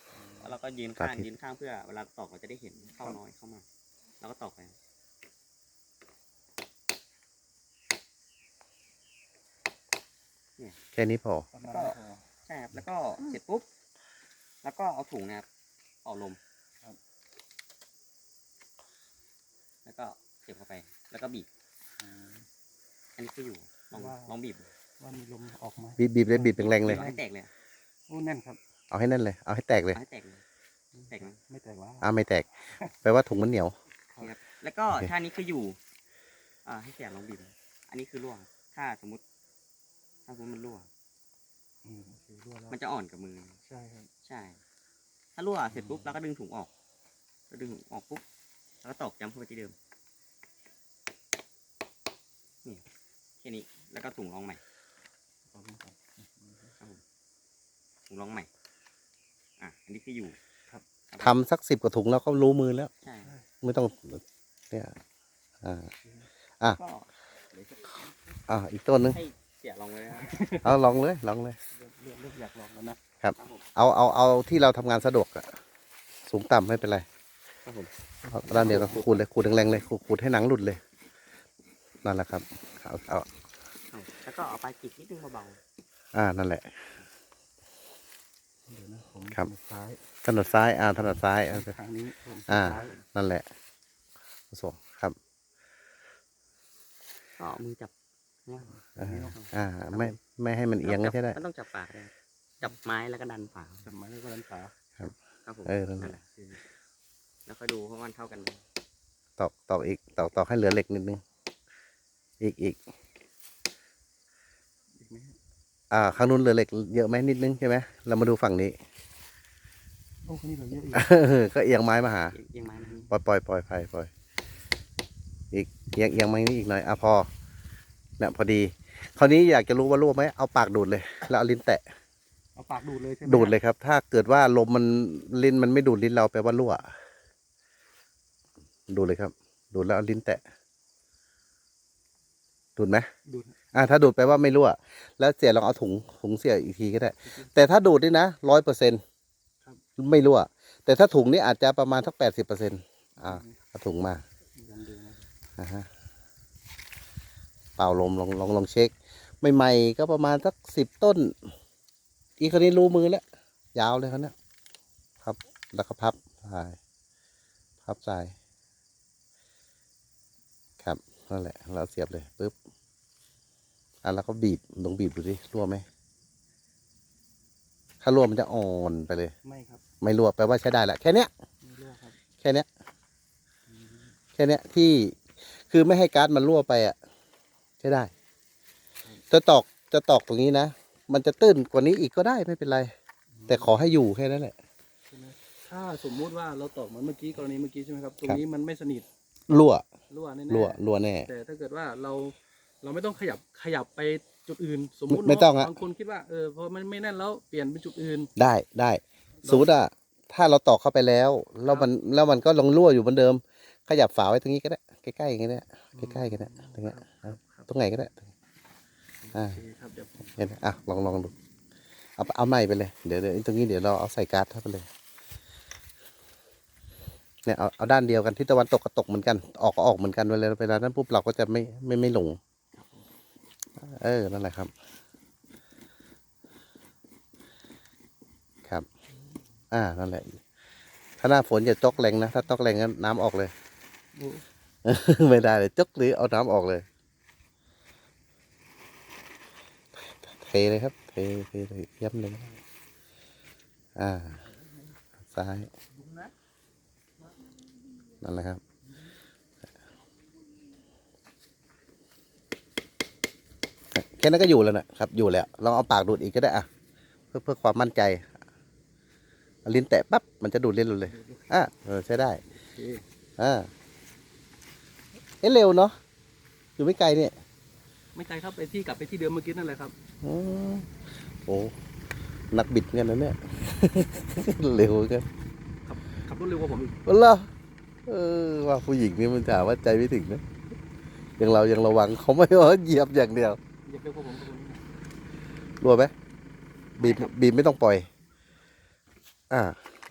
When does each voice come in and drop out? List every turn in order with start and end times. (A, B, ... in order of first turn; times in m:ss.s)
0:00.1-0:00.6 A
0:00.4-0:03.6 B
0:01.0-0:01.3 C
0:04.2-0:04.8 B
0:10.9-0:11.5 C
0:11.5-0:12.2 A
0:11.6-0:13.7 B
0:14.6-0:15.4 B
0:16.0-0:16.4 B
0:19.8-0:21.5 B
0:22.0-0:22.4 A
0:23.2-0:24.7 B
0:23.9-0:24.4 A
0:25.0-0:27.2 A
0:26.0-0:27.1 C
0:26.8-0:27.5 B
0:28.1-0:28.6 A
0:28.9-0:30.0 C
0:29.9-0:30.4 B
0:30.9-0:32.1 A
0:31.1-0:31.4 B
0:32.0-0:32.5 C
0:33.0-0:33.8 C
0:34.2-0:35.8 B
0:36.6-0:39.2 B
0:40.2-0:40.9 B
0:41.8-0:42.8 A
0:42.7-0:43.6 B
0:43.6-0:44.1 A
0:44.2-0:44.6 B
0:45.3-0:46.7 B
0:45.7-0:46.2 A
0:47.5-0:48.2 B
0:48.8-0:49.8 B
0:53.4-0:54.6 B
0:55.5-0:56.8 A
0:58.1-0:58.5 B
0:59.6-1:00.4 B
1:01.1-1:01.4 B
1:01.2-1:02.9 C
1:03.0-1:03.3 B
1:03.6-1:04.9 C
1:05.6-1:05.9 C
1:06.0-1:06.3 A
1:06.7-1:07.1 B
1:07.6-1:07.9 A
1:08.5-1:09.2 C
1:09.1-1:10.4 B
1:10.1-1:10.8 A
1:10.6-1:11.6 C
1:11.7-1:13.0 A
1:13.2-1:15.6 C
1:13.4-1:13.6 B
1:16.3-1:17.0 C
1:17.6-1:17.9 B
1:18.3-1:20.8 C
1:18.5-1:19.2 B
1:18.5-1:19.0 A
1:22.0-1:23.3 C
1:23.9-1:25.6 B
1:26.1-1:26.8 C
1:28.7-1:30.0 A
1:30.2-1:31.7 C
1:31.0-1:33.0 A
1:32.5-1:33.4 C
1:32.6-1:33.0 B
1:34.5-1:35.2 C
1:37.4-1:37.9 B
1:38.4-1:40.2 B
1:38.7-1:39.4 A
1:39.0-1:41.4 C
1:40.8-1:43.9 B
1:43.8-1:44.7 A
1:45.4-1:46.2 B
1:45.6-1:46.2 C
1:46.0-1:46.6 A
1:47.4-1:48.6 B
1:49.4-1:51.2 C
1:52.4-1:52.8 C
1:55.0-1:55.4 A
1:55.9-1:58.8 C
2:00.2-2:01.1 A
2:00.9-2:02.4 C
2:02.3-2:03.1 B
2:02.6-2:03.1 A
2:03.1-2:04.1 C
2:05.5-2:07.3 C
2:08.2-2:11.8 C
2:12.6-2:13.6 A
2:13.2-2:16.9 C
2:18.9-2:20.4 C
2:22.8-2:23.1 C
2:23.2-2:23.6 A
2:23.7-2:29.0 C
2:27.2-2:27.7 A
2:30.0-2:34.2 C
2:33.2-2:33.6 A
2:34.6-2:35.2 A
2:35.6-2:35.9 C
2:37.8-2:41.5 C
2:42.4-2:43.2 C
2:43.7-2:44.3 C
2:45.2-2:46.8 C
2:47.8-2:48.3 C
2:50.8-2:52.5 C
2:54.0-2:55.8 C
2:58.0-2:59.3 C
2:59.4-2:59.8 A
3:00.0-3:01.3 C
3:01.6-3:02.2 A
3:02.4-3:02.7 C
3:03.7-3:04.1 A
3:04.4-3:07.0 C
3:07.8-3:08.1 C
3:09.3-3:12.9 C
3:13.3-3:13.8 A
3:13.5-3:14.6 C
3:15.1-3:19.0 A
3:19.5-3:19.8 C
3:20.1-3:28.3 A
3:20.5-3:21.3 C
3:25.1-3:25.8 C
3:28.4-3:38.2 C
3:29.4-3:29.8 A
3:35.9-3:37.7 A
3:39.2-3:40.5 A
3:40.4-3:41.3 C
3:42.2-3:44.9 C
3:47.4-3:52.4 C
3:52.7-3:53.0 A
3:53.8-3:54.7 C
3:59.7-4:00.4 C
4:01.2-4:03.5 C
4:04.1-4:04.4 A
4:04.8-4:06.8 C
4:10.0-4:12.5 C
4:14.0-4:14.4 C
4:15.3-4:15.7 C
4:18.2-4:18.6 C
4:23.9-4:26.7 C
4:27.3-4:28.2 C
4:29.6-4:32.4 C
4:31.0-4:31.5 A
4:32.7-4:33.0 A
4:33.4-4:33.7 C
4:35.4-4:36.0 C
4:36.8-4:37.4 C
4:38.1-4:39.9 A
4:40.2-4:40.9 C
4:41.4-4:41.7 C
4:42.5-4:45.3 C
4:45.8-4:47.0 A
4:47.0-4:47.5 C
4:48.0-4:50.4 C
4:51.4-4:53.6 C
4:53.8-4:54.8 A
4:55.8-4:56.1 C
4:57.0-4:58.1 C
4:57.0-4:57.3 A
4:59.5-4:59.8 C